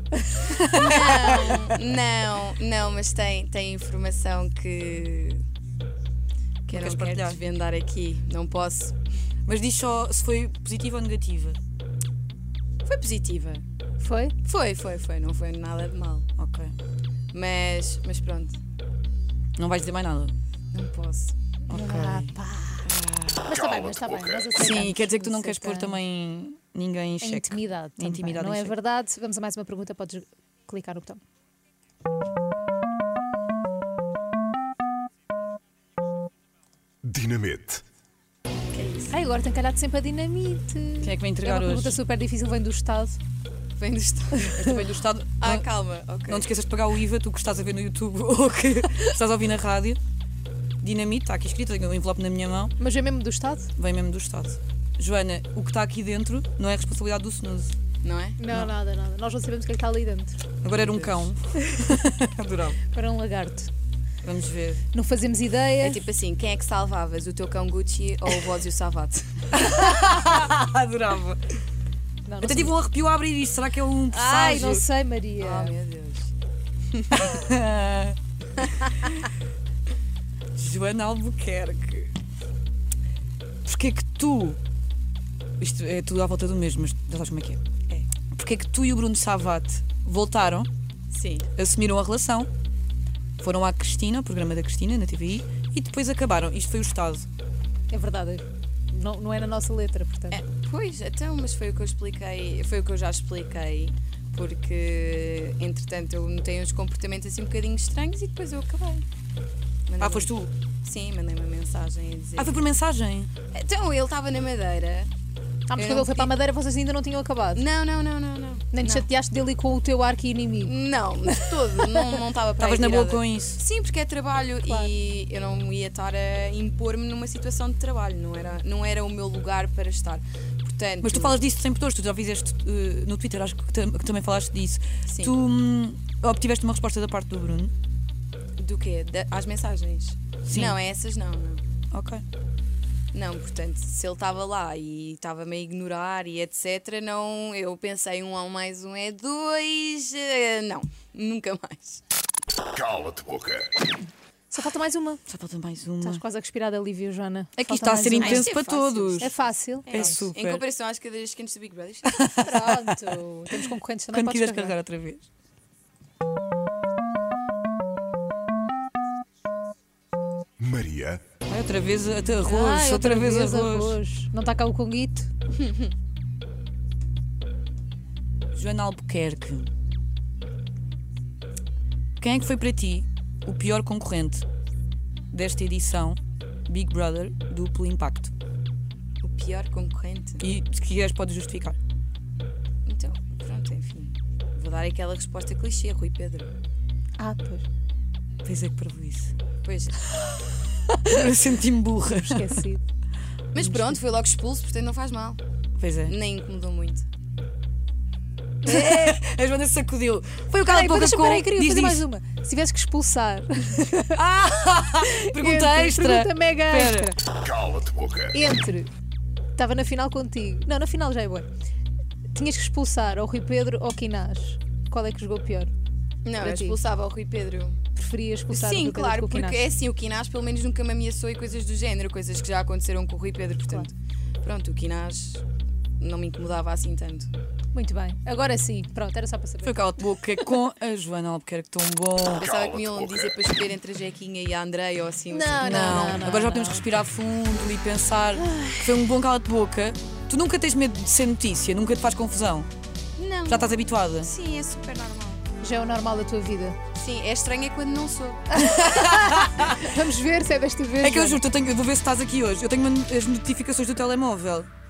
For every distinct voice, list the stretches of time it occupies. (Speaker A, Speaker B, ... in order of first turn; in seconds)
Speaker A: 0.3-1.7, 6.7-7.4, 9.5-11.6, 16.4-16.7, 19.6-20.3, 21.7-22.4, 24.5-28.7, 41.0-42.0, 44.5-45.6, 46.2-50.0, 50.8-52.7, 53.8-57.7, 60.6-62.8, 64.2-64.8, 69.5-71.4, 72.4-74.8, 77.2-78.2, 80.5-82.1, 83.6-84.6, 85.6-87.6, 88.3-90.7, 91.5-92.5, 93.4-97.3, 110.0-110.5, 112.4-113.3, 122.6-123.6, 131.0-137.7, 140.4-140.8, 141.9-142.2, 155.3-156.2, 157.6-159.3, 159.8-160.6, 162.0-163.0, 164.1-165.3, 171.4-174.0, 178.5-179.7, 182.2-184.4, 185.3-188.3, 190.4-191.8, 198.4-199.3, 200.9-202.6, 205.8-206.1, 208.6-212.0, 214.1-217.1, 239.6-242.4, 245.6-252.7, 253.5-254.3, 258.5-259.9, 261.0-264.7
Speaker B: 0.8-5.4, 6.7-8.9, 12.8-13.6, 14.4-16.2, 17.3-18.6, 20.7-21.3, 22.8-23.6, 38.7-39.1, 43.8-44.7, 45.4-46.5, 58.0-58.4, 60.7-61.3, 65.8-69.3, 74.1-74.8, 75.4-76.3, 76.9-77.3, 91.1-91.5, 100.3-109.0, 109.9-112.7, 113.5-115.1, 115.7-116.3, 117.5-119.0, 120.6-131.4, 135.1-135.3, 138.6-141.6, 143.1-152.0, 158.1-162.3, 175.6-175.9, 189.2-190.4, 192.8-196.5, 199.6-200.0, 203.5-205.4, 206.0-207.0, 208.6-209.2, 226.2-227.8, 228.5-235.4, 236.0-237.3, 242.4-246.3, 253.2-255.4, 256.9-258.5
Speaker C: 14.0-14.3, 21.7-22.9, 23.4-26.0, 27.2-31.2, 39.1-43.2, 52.8-53.7, 58.4-60.4, 62.9-63.7, 64.9-66.0, 72.2-72.8, 74.3-75.8, 97.9-100.4, 115.7-117.7, 118.7-120.8, 154.5-155.2, 156.0-158.5, 159.2-160.2, 162.4-164.8, 172.4-175.3, 197.2-197.7, 202.1-202.8, 203.6-203.9, 210.6-214.2, 215.0-217.2, 218.3-218.9, 219.6-221.4, 222.3-225.7, 226.4-226.8, 227.9-229.7, 237.7-240.4, 245.3-246.8, 255.6-256.8, 258.5-261.4
Speaker D: 23.6-24.4, 37.0-37.8, 152.7-153.7, 170.6-171.2, 217.4-218.3